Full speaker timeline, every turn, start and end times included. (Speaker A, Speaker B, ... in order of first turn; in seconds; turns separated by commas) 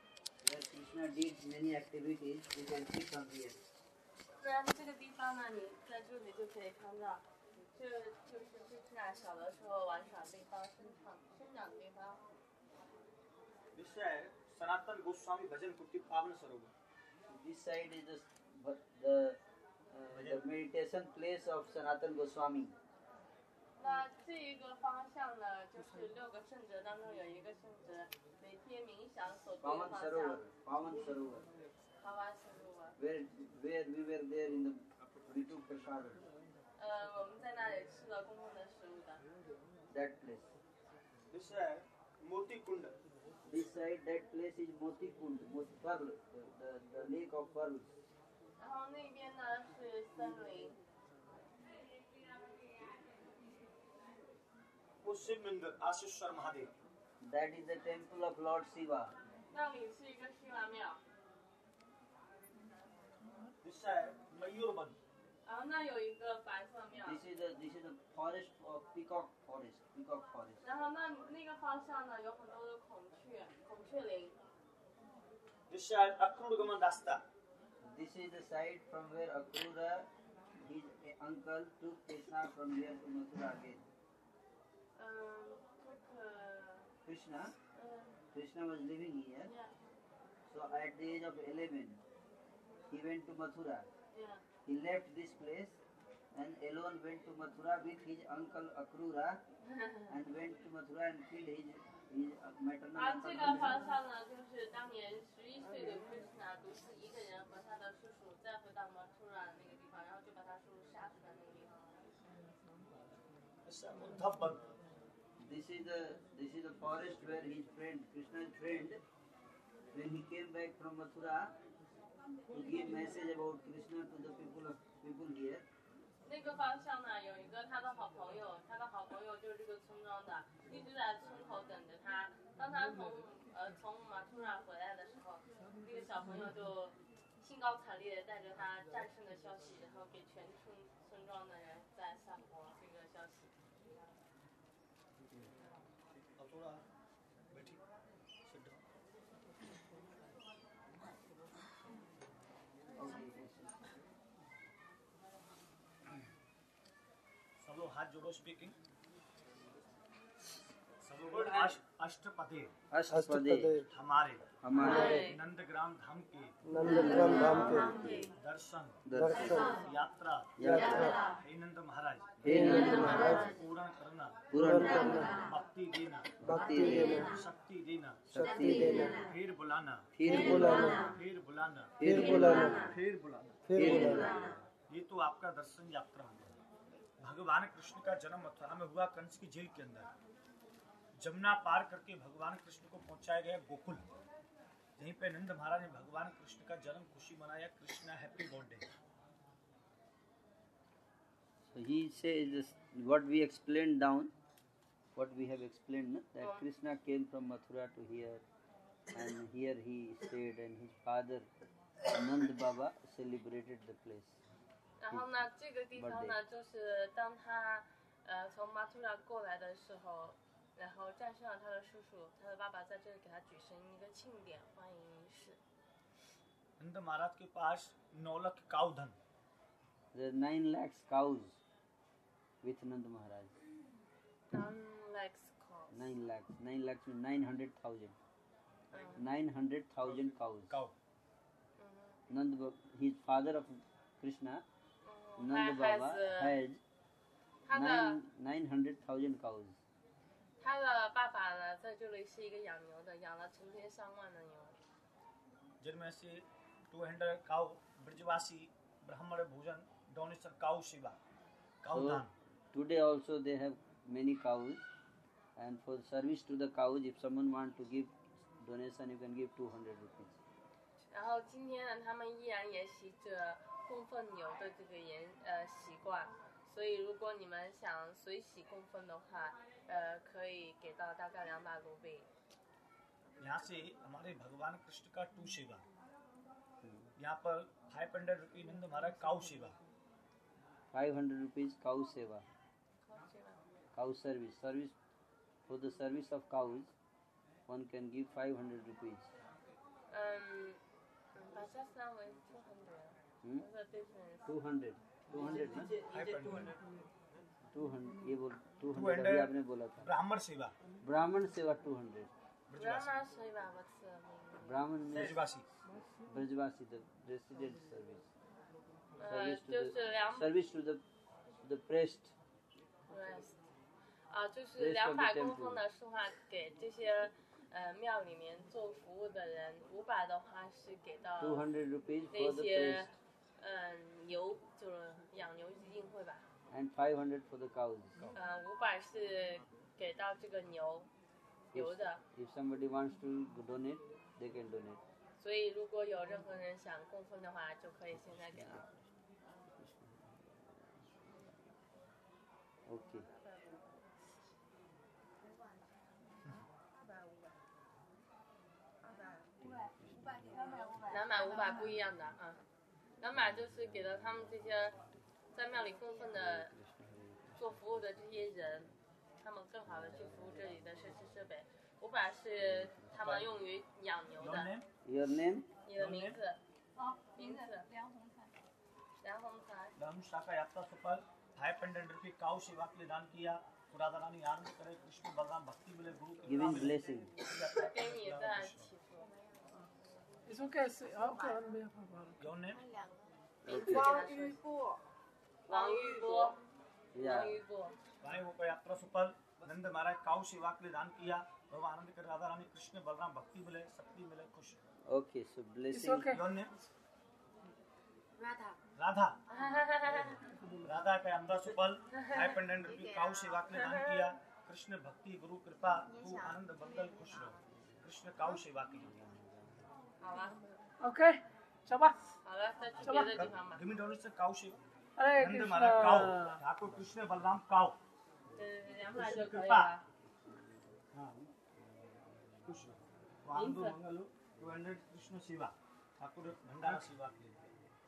Speaker A: 0.4-3.6, Speaker B: 4.4-12.2, Speaker C: 13.7-16.7, Speaker A: 17.3-19.4, Speaker A: 19.9-22.7, Speaker C: 20.1-20.4, Speaker B: 23.8-30.4, Speaker A: 29.6-31.5, Speaker B: 32.0-33.0, Speaker A: 33.0-36.2, Speaker B: 36.8-39.2, Speaker A: 39.9-40.5, Speaker C: 41.3-42.9, Speaker A: 43.5-47.9, Speaker B: 48.6-50.8, Speaker C: 55.0-56.7, Speaker A: 57.2-59.1, Speaker B: 59.5-61.0, Speaker C: 63.6-65.0, Speaker B: 65.4-67.2, Speaker A: 67.0-70.6, Speaker B: 70.6-74.4, Speaker C: 75.7-77.2, Speaker A: 77.8-83.8, Speaker B: 85.0-86.9, Speaker A: 87.0-87.5, Speaker B: 87.7-88.1, Speaker A: 88.3-89.5, Speaker B: 89.4-89.7, Speaker A: 90.5-92.0, Speaker A: 92.9-93.9, Speaker B: 94.1-94.4, Speaker A: 94.7-95.8, Speaker A: 96.3-99.4, Speaker B: 99.7-100.1, Speaker A: 100.1-103.8, Speaker B: 102.9-111.9, Speaker C: 113.6-114.6, Speaker A: 115.4-119.0, Speaker A: 119.9-121.5, Speaker A: 122.5-125.7, Speaker B: 126.2-143.5, Speaker C: 146.3-146.8, Speaker C: 147.5-147.8, Speaker C: 148.5-148.8, Speaker A: 153.0-153.8, Speaker C: 157.6-158.8, Speaker C: 161.0-162.7, Speaker A: 162.9-163.8, Speaker C: 163.8-166.6, Speaker A: 164.6-165.2, Speaker B: 164.7-165.4, Speaker B: 166.8-168.3, Speaker C: 167.8-174.4, Speaker A: 169.1-169.8, Speaker A: 170.6-171.1, Speaker A: 172.4-173.4, Speaker B: 172.5-173.5, Speaker A: 174.5-175.4, Speaker C: 175.2-178.5, Speaker A: 176.4-177.4, Speaker A: 178.3-179.2, Speaker C: 179.1-186.6, Speaker A: 180.1-181.1, Speaker A: 182.0-182.9, Speaker A: 183.7-184.5, Speaker C: 187.2-190.1, Speaker C: 191.2-194.0, Speaker C: 195.0-198.9, Speaker A: 201.7-204.3, Speaker A: 205.1-208.4, Speaker A: 209.1-211.5, Speaker A: 212.1-214.4, Speaker B: 215.0-225.6, Speaker A: 215.9-216.4, Speaker C: 226.8-229.2, Speaker A: 230.1-231.6, Speaker A: 232.6-233.6, Speaker B: 234.5-236.1, Speaker A: 235.9-238.2, Speaker B: 238.9-239.2, Speaker A: 239.2-240.8, Speaker C: 240.0-240.9, Speaker B: 241.8-242.2, Speaker A: 242.3-244.6, Speaker B: 245.0-246.6, Speaker A: 245.4-246.8, Speaker B: 247.7-248.2, Speaker A: 247.7-249.8, Speaker B: 250.6-254.8, Speaker C: 255.8-261.2, Speaker C: 261.8-262.3, Speaker A: 261.9-264.8, Speaker A: 265.6-270.4, Speaker B: 271.1-282.3, Speaker C: 283.4-285.8, Speaker C: 287.2-289.8, Speaker A: 290.9-292.4, Speaker B: 293.1-293.6, Speaker A: 293.9-294.9, Speaker A: 295.6-296.9, Speaker A: 297.7-299.3, Speaker B: 300.1-300.8, Speaker B: 301.3-304.5, Speaker A: 304.4-305.9, Speaker C: 305.3-306.8, Speaker B: 305.3-305.9, Speaker A: 307.7-310.1, Speaker C: 308.9-310.7, Speaker A: 311.0-312.3, Speaker C: 312.7-313.1, Speaker B: 312.8-314.8, Speaker A: 314.6-315.4, Speaker C: 315.1-315.7, Speaker A: 316.2-318.3, Speaker B: 319.2-320.5, Speaker A: 319.3-321.0, Speaker A: 321.6-322.3, Speaker B: 323.1-323.6, Speaker B: 324.3-331.7, Speaker A: 324.8-325.8, Speaker A: 331.4-333.1, Speaker B: 332.3-336.4, Speaker A: 336.7-338.2, Speaker B: 338.3-341.1, Speaker B: 341.7-342.2, Speaker A: 341.7-345.0, Speaker B: 345.4-348.9, Speaker A: 348.1-349.0, Speaker A: 349.6-351.6, Speaker A: 352.9-353.3, Speaker A: 359.6-360.8, Speaker D: 360.5-361.8, Speaker B: 360.6-362.6, Speaker B: 363.2-365.0, Speaker A: 363.3-365.1, Speaker B: 365.5-366.7, Speaker A: 366.3-368.9, Speaker B: 367.6-374.7, Speaker A: 369.8-371.3, Speaker A: 372.6-373.4, Speaker C: 373.2-373.5, Speaker C: 374.4-374.9, Speaker A: 375.0-375.7, Speaker B: 375.9-376.6, Speaker C: 375.9-376.4, Speaker D: 377.0-378.5, Speaker B: 377.3-377.9, Speaker B: 379.2-379.9, Speaker C: 380.0-388.9, Speaker A: 386.5-387.3, Speaker B: 387.5-389.3, Speaker E: 390.5-392.4, Speaker D: 391.1-391.6, Speaker C: 392.4-392.8, Speaker B: 393.6-394.6, Speaker D: 393.7-395.0, Speaker E: 393.7-394.0, Speaker B: 395.7-396.6, Speaker D: 395.7-396.5, Speaker A: 397.1-397.6, Speaker B: 397.2-398.0, Speaker C: 398.2-404.8, Speaker A: 405.1-406.3, Speaker E: 405.9-406.4, Speaker C: 406.3-406.7, Speaker D: 408.4-408.8, Speaker C: 408.9-409.4, Speaker B: 409.5-410.5, Speaker C: 410.8-419.1, Speaker B: 412.2-412.6, Speaker D: 412.9-413.6, Speaker B: 413.8-414.3, Speaker D: 416.2-416.5, Speaker B: 420.2-420.6, Speaker E: 421.0-422.3, Speaker B: 422.4-423.8, Speaker C: 423.0-424.8, Speaker E: 423.0-423.3, Speaker E: 425.2-426.6, Speaker C: 425.4-428.0, Speaker B: 428.6-430.0, Speaker C: 429.1-429.9, Speaker C: 431.1-431.4, Speaker C: 432.6-437.7, Speaker B: 433.5-433.9